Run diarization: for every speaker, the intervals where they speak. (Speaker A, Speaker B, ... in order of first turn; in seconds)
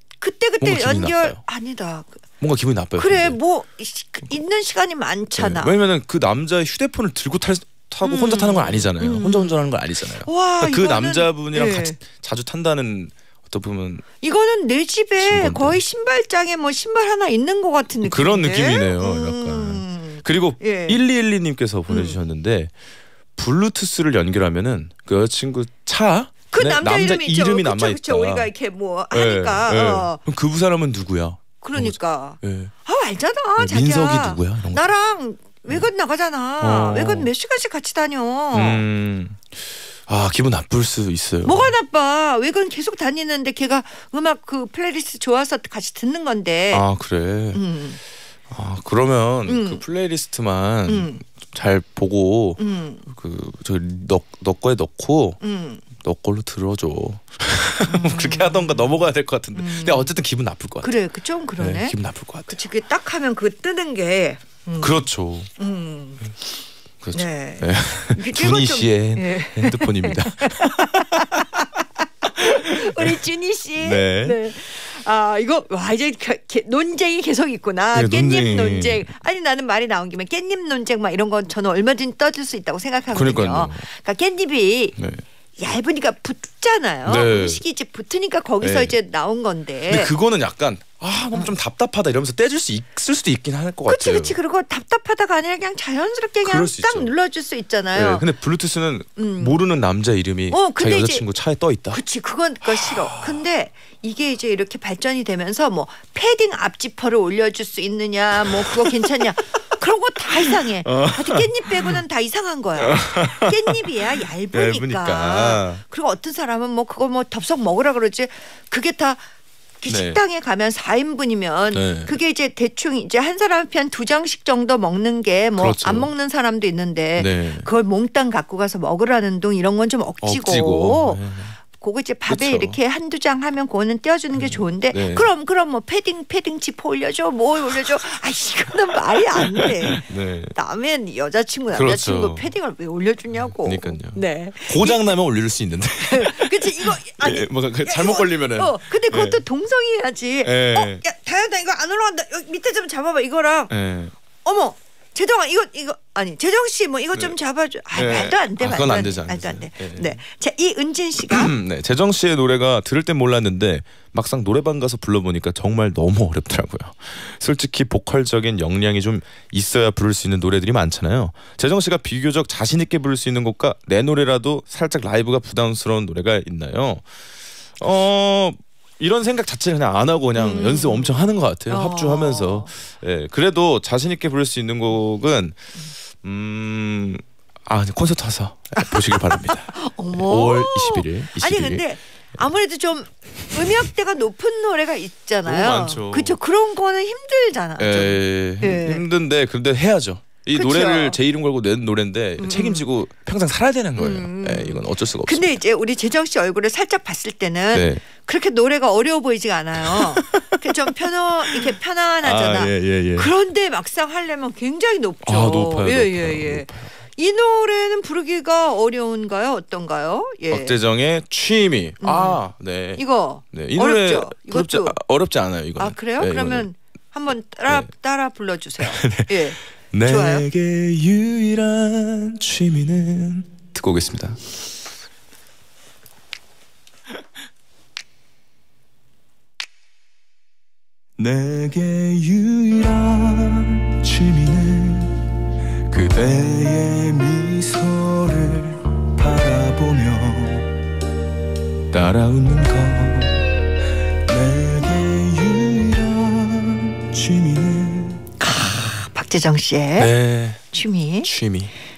Speaker A: 0.2-2.2, 3.0-5.8, 8.0-9.6, 10.2-12.0, 14.2-21.0, 21.9-22.2, 26.5-30.2, 31.6-38.8, 41.4-46.8, 47.5-48.0, 49.5-49.8, 50.9-51.2, 52.6-53.0, 55.4-55.8, 57.9-59.0, 59.5-60.1, 60.8-62.0, 62.5-65.1, 65.6-66.3, 67.1-85.0, 85.6-90.1, 93.9-98.3, 99.2-99.6, 100.5-101.2, 101.9-119.2, 119.8-145.1, 146.0-153.7, 154.4-161.5, 180.4-182.7, 188.8-199.0, 200.5-201.2, 202.4-202.8, 204.0-220.8, 222.0-222.4, 223.0-225.0, 225.8-230.5, 258.4-260.1, 260.7-261.3
Speaker B: 0.6-1.4, 2.4-3.4, 5.4-14.0, 15.2-15.8, 18.0-22.7, 23.4-28.5, 29.1-32.7, 33.6-34.9, 36.6-37.3, 38.5-41.8, 46.7-47.6, 48.5-55.4, 55.9-61.0, 61.6-62.6, 64.8-65.5, 67.0-71.2, 72.4-73.2, 73.8-74.5, 77.9-79.1, 83.1-83.9, 85.0-85.2, 87.0-87.6, 88.6-89.0, 89.9-94.3, 96.4-97.1, 97.9-102.0, 102.7-103.4, 108.5-108.9, 110.6-112.0, 112.8-113.9, 114.5-115.8, 119.9-120.2, 121.7-122.1, 125.6-126.1, 127.2-127.7, 130.2-131.6, 132.3-132.8, 134.4-135.3, 139.4-140.5, 141.7-142.5, 143.6-149.5, 150.4-151.0, 153.7-154.1, 157.9-160.2, 161.3-177.1, 177.8-191.8, 195.4-196.4, 197.8-205.6, 207.7-208.0, 209.8-210.8, 211.5-213.3, 215.2-216.9, 220.5-226.7, 228.8-234.4, 241.2-245.3, 245.9-250.8, 251.9-253.6, 254.3-258.3, 260.0-261.7